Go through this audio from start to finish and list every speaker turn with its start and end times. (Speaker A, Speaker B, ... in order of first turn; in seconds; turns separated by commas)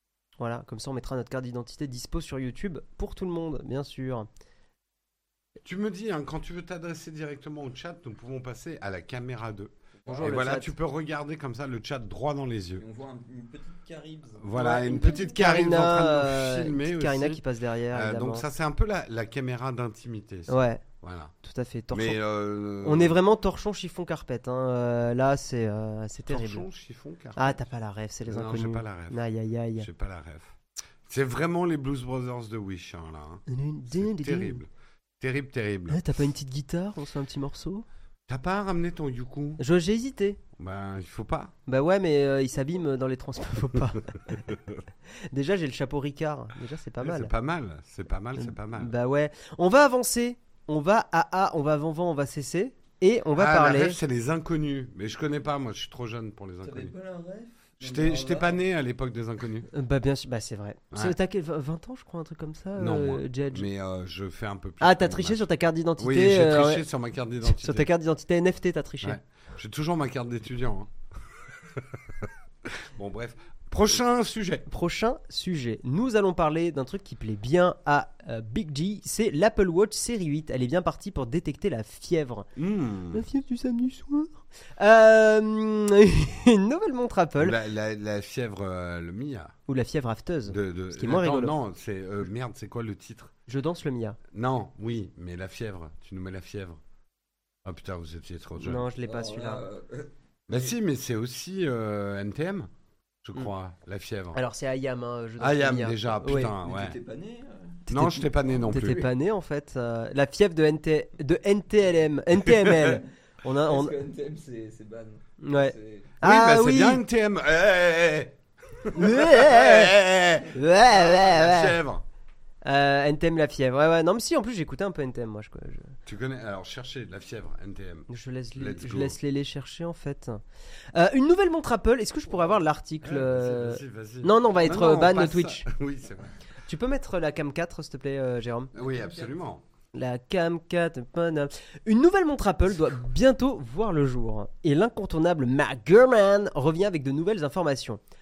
Speaker A: 0.4-4.3, Speaker B: 5.6-12.8, Speaker C: 10.0-10.5, Speaker A: 10.1-10.7, Speaker C: 12.8-15.3, Speaker B: 14.4-21.3, Speaker A: 14.5-18.5, Speaker A: 20.5-20.8, Speaker A: 21.4-22.2, Speaker B: 21.9-23.2, Speaker A: 22.8-26.6, Speaker B: 26.2-27.7, Speaker A: 27.4-29.9, Speaker B: 28.3-29.2, Speaker B: 29.8-34.7, Speaker A: 33.5-34.6, Speaker B: 35.2-36.1, Speaker A: 35.9-37.9, Speaker B: 38.3-39.6, Speaker A: 39.6-40.4, Speaker B: 40.6-41.5, Speaker A: 41.7-44.6, Speaker A: 45.3-47.3, Speaker B: 47.0-48.9, Speaker A: 48.4-54.0, Speaker B: 53.4-56.9, Speaker C: 56.6-58.6, Speaker B: 57.8-59.7, Speaker A: 59.7-63.7, Speaker B: 60.9-61.2, Speaker B: 62.8-67.9, Speaker A: 64.8-66.8, Speaker A: 67.4-69.2, Speaker B: 69.0-70.9, Speaker B: 71.7-74.7, Speaker A: 74.7-82.5, Speaker B: 82.6-83.2, Speaker A: 83.1-87.6, Speaker B: 87.4-89.5, Speaker A: 89.7-91.5, Speaker B: 90.5-93.3, Speaker A: 93.5-94.2, Speaker B: 94.3-96.8, Speaker B: 97.7-98.9, Speaker A: 98.6-99.6, Speaker C: 99.0-100.7, Speaker B: 100.5-102.7, Speaker B: 103.2-104.4, Speaker A: 104.3-106.5, Speaker B: 105.4-107.0, Speaker C: 106.3-107.8, Speaker A: 107.9-114.0, Speaker B: 107.9-109.1, Speaker B: 112.5-112.8, Speaker C: 113.7-116.1, Speaker A: 115.4-117.0, Speaker B: 116.2-122.0, Speaker A: 118.9-121.8, Speaker A: 122.7-125.9, Speaker B: 126.1-129.2, Speaker A: 128.1-130.4, Speaker A: 130.9-135.7, Speaker B: 133.0-136.3, Speaker A: 136.7-138.7, Speaker B: 138.7-139.6, Speaker C: 138.8-139.3, Speaker A: 139.9-148.0